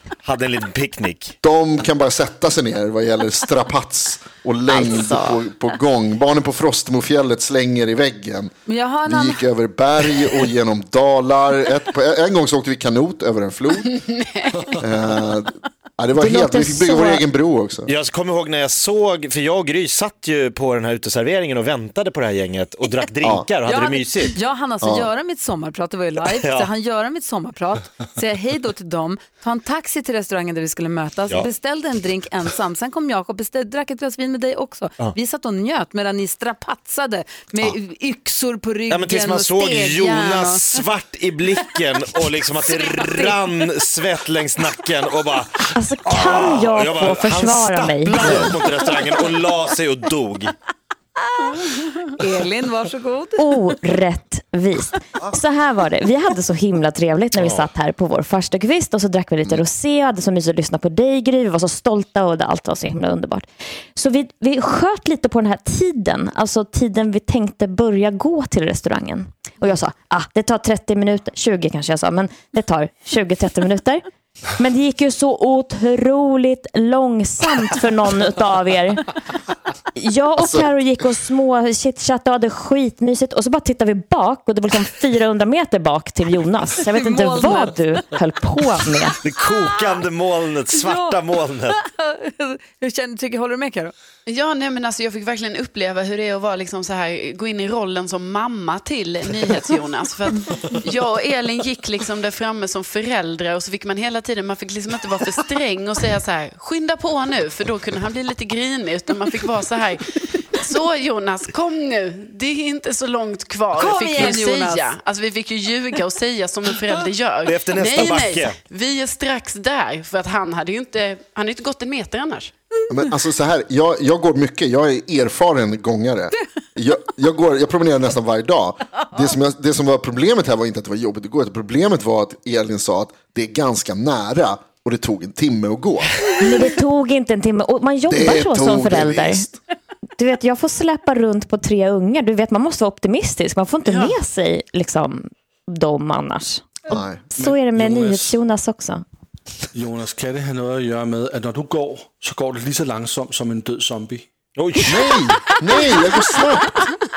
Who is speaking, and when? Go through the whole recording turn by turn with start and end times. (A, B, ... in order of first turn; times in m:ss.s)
0:00.2-0:01.4 A
0:01.4-0:08.5 B
0:04.7-0:05.4 C
0:08.7-0:09.5 D
0:09.0-0:14.0 B
0:13.8-0:14.8 C
0:14.8-0:17.9 B
0:16.2-0:17.2 E
0:17.9-0:24.4 A
0:23.6-0:40.8 D
0:24.8-0:25.1 B
0:26.4-0:26.7 A
0:38.9-0:50.5 A
0:42.6-0:43.4 D
0:45.7-0:48.6 E
0:51.3-0:53.5 D
0:53.4-1:14.1 E
0:57.4-0:57.7 A
1:14.6-1:19.2 E
1:20.0-1:29.2 E
1:20.4-1:20.7 B
1:27.0-1:27.9 D
1:29.2-1:31.8 A
1:29.5-1:30.0 D
1:30.7-1:33.9 D
1:34.3-2:02.5 C
1:53.7-1:55.0 D
1:57.4-1:58.6 A
2:02.9-2:16.2 B
2:16.4-2:19.5 E
2:18.1-2:19.6 B
2:20.2-2:29.0 E
2:23.9-2:24.2 C
2:26.9-2:27.3 B
2:27.4-2:28.4 F
2:29.7-2:34.3 F
2:34.6-2:35.0 A
2:34.9-2:36.7 B
2:35.8-2:36.0 D